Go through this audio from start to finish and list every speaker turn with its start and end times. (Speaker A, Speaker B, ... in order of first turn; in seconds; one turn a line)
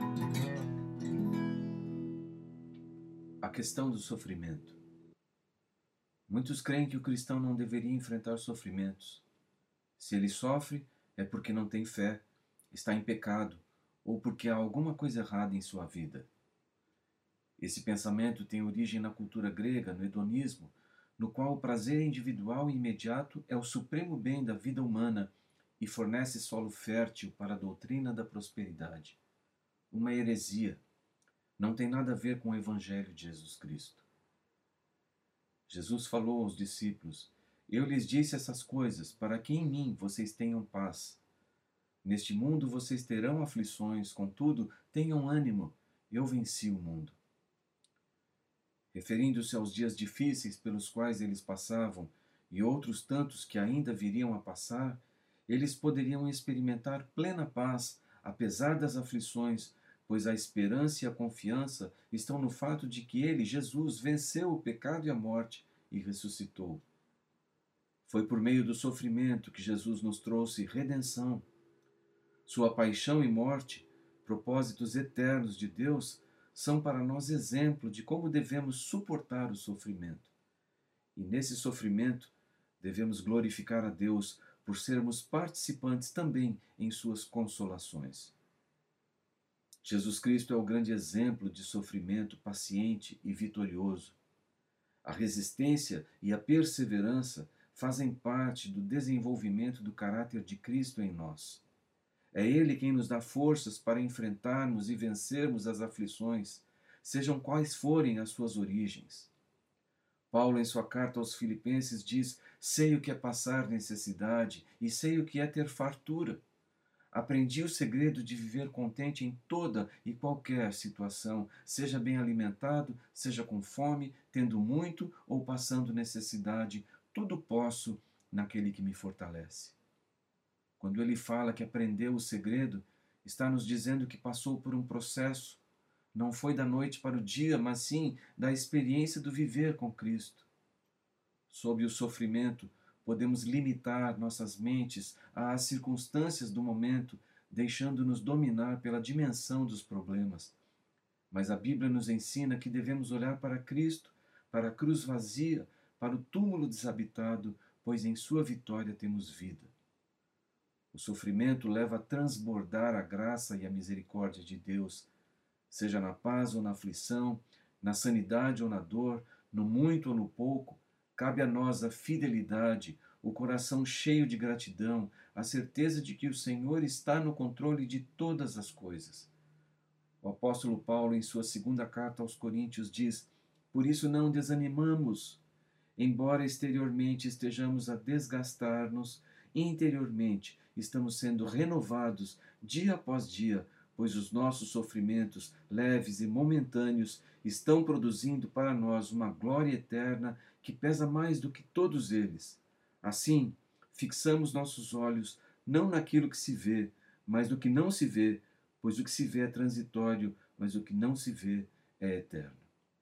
Speaker A: 3.4-4.8
Speaker A: 6.3-9.2
Speaker A: 10.0-16.3
Speaker A: 17.6-29.2
Speaker A: 29.9-30.8
Speaker A: 31.6-34.0
Speaker A: 35.7-41.2
Speaker A: 42.0-47.2
Speaker A: 48.9-66.8
Speaker A: 68.1-71.4
Speaker A: 72.5-80.3
Speaker A: 81.2-88.3
Speaker A: 89.8-94.2
Speaker A: 95.0-101.6
Speaker A: 102.3-109.3
Speaker A: 110.3-116.4
Speaker A: 117.1-129.8
Speaker A: 130.8-135.6
Speaker A: 136.1-140.5
Speaker A: 141.5-150.6
Speaker A: 151.3-159.7
Speaker A: 160.9-165.1
Speaker A: 165.7-179.3
Speaker A: 180.2-185.4
Speaker A: 186.0-212.7